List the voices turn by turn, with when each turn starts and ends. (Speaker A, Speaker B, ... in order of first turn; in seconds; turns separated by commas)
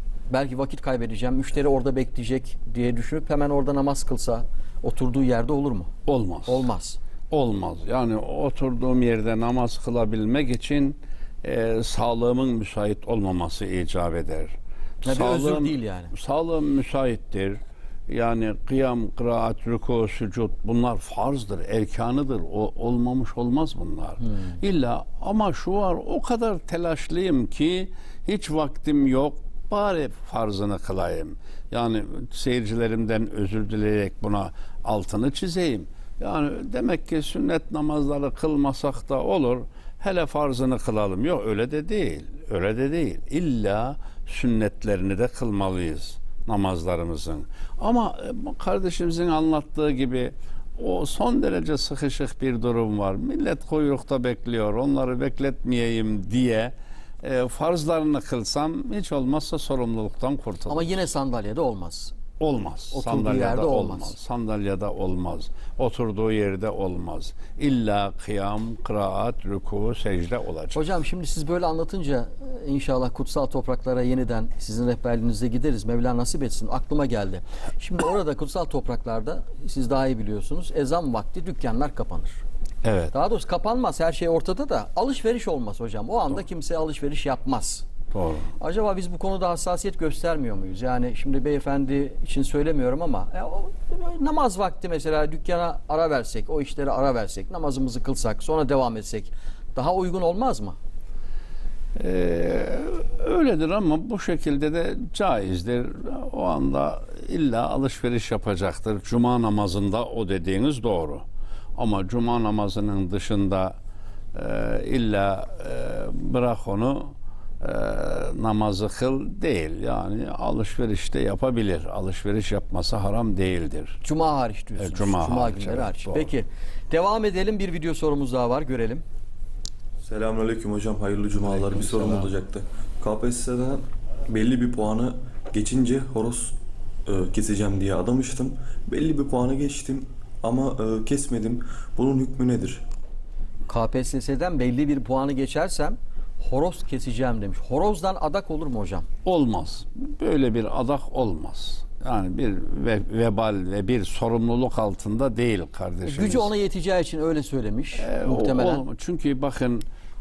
Speaker A: 0.3-5.9, Speaker B: 6.0-6.7, Speaker A: 6.5-7.0, Speaker B: 7.3-61.0, Speaker A: 15.0-16.1, Speaker A: 60.7-62.1, Speaker B: 62.4-70.8, Speaker A: 62.9-64.2, Speaker A: 70.7-82.4, Speaker B: 82.8-83.1, Speaker A: 83.1-87.8, Speaker B: 88.1-88.5, Speaker A: 88.6-100.8, Speaker B: 102.0-111.2, Speaker B: 111.8-113.8, Speaker B: 114.3-124.0, Speaker A: 124.0-129.0, Speaker B: 124.8-126.3, Speaker C: 130.0-142.8, Speaker A: 143.7-149.1, Speaker B: 149.2-156.5, Speaker A: 156.0-158.8, Speaker B: 158.0-159.8